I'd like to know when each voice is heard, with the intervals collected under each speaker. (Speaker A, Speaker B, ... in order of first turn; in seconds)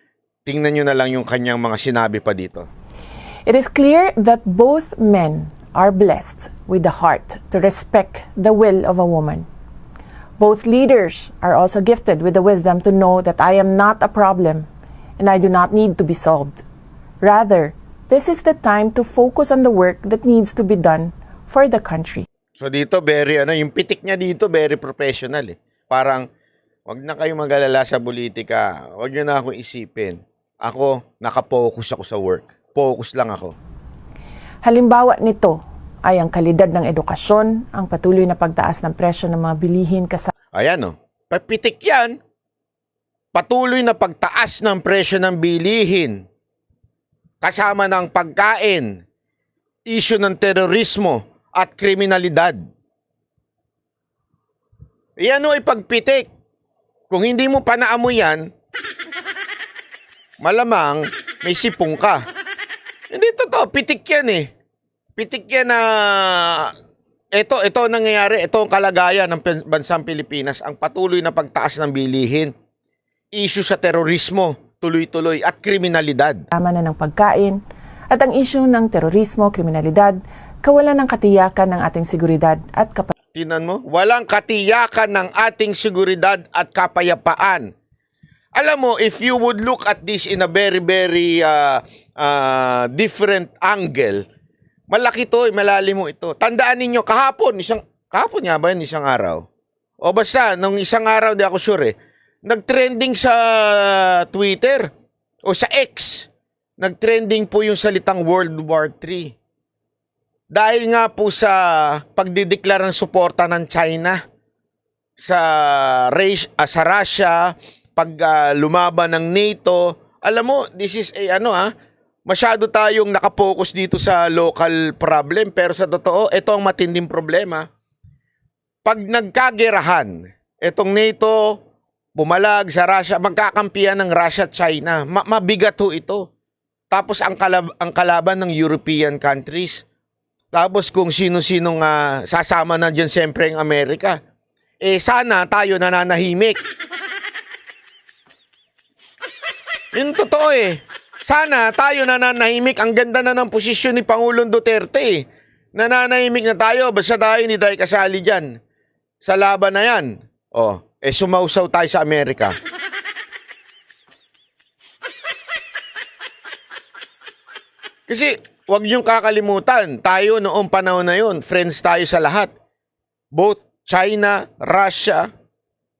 Speaker A: 0.4-2.7, 22.6-26.3, 26.9-33.5, 40.5-42.2, 43.3-46.2, 47.4-49.0, 49.9-52.6, 55.2-56.3, 57.1-58.5, 60.4-62.2, 63.1-64.5, 65.2-66.7, 67.3-72.5, 73.3-76.4, 83.3-87.7, 88.5-94.2, 94.9-99.4, 100.0-101.9, 102.5-104.9, 105.5-109.3, 110.5-114.2, 115.2-121.7, 122.3-127.6, 128.8-131.6, 132.2-136.3, 136.9-139.8, 140.5-144.2, 144.8-146.6, 149.9-158.5, 159.2-162.6, 168.1-172.5, 173.3-175.3
Speaker B: 3.5-9.5, 10.4-14.7, 15.2-16.6, 17.2-22.2, 34.6-40.3, 76.5-83.1